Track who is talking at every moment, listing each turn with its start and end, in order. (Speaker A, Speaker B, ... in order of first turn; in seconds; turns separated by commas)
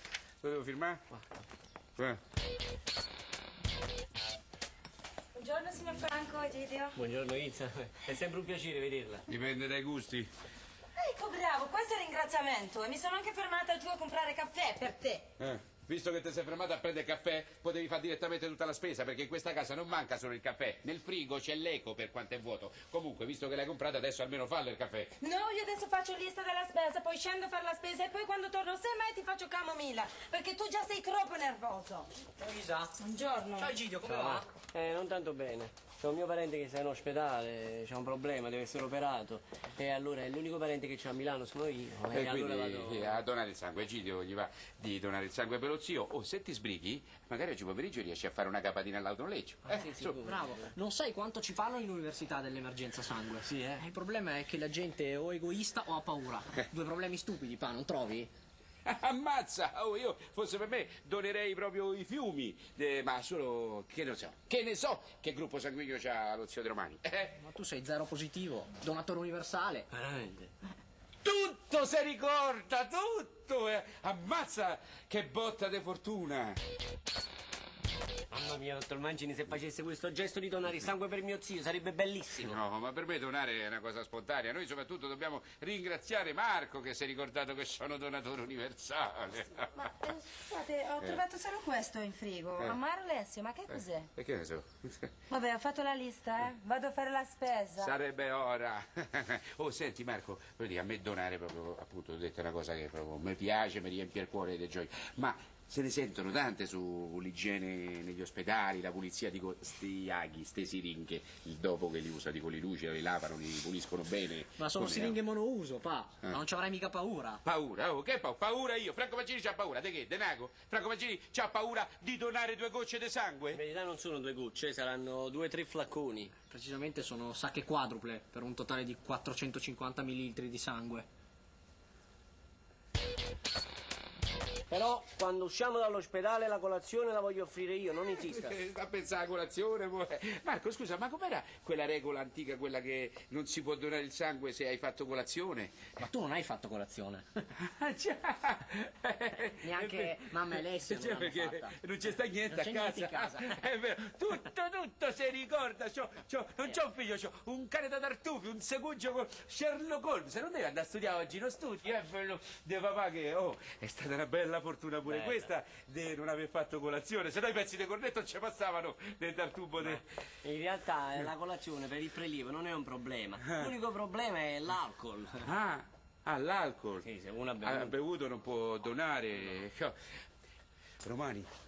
Speaker A: 0.4-1.0, Speaker B: 5.3-7.0, Speaker C: 6.9-9.2, Speaker A: 9.3-10.3, Speaker B: 11.0-15.3, Speaker A: 15.4-25.2, Speaker B: 25.2-32.1, Speaker D: 32.4-33.0, Speaker B: 33.0-33.7, Speaker D: 33.5-34.5, Speaker C: 34.0-43.2, Speaker A: 42.1-50.2, Speaker D: 49.8-58.3, Speaker C: 49.8-50.5, Speaker C: 53.5-53.8, Speaker A: 58.9-67.4, Speaker D: 67.4-69.9, Speaker C: 69.9-70.5, Speaker A: 71.2-76.6, Speaker C: 78.3-82.6, Speaker A: 82.4-89.8, Speaker B: 89.8-94.1, Speaker A: 93.7-95.1, Speaker B: 95.3-97.9, Speaker A: 97.8-115.2, Speaker D: 114.6-117.4, Speaker A: 117.4-123.6, Speaker C: 123.5-126.3, Speaker D: 126.5-131.1, Speaker C: 134.7-138.6, Speaker A: 138.2-146.0, Speaker D: 146.0-147.3, Speaker A: 147.6-170.0, Speaker D: 149.6-151.7, Speaker D: 152.5-153.6, Speaker C: 165.0-165.5, Speaker C: 169.8-175.5, Speaker A: 173.4-173.7, Speaker A: 175.4-177.1, Speaker C: 177.0-178.0, Speaker A: 177.6-179.9, Speaker A: 181.0-181.5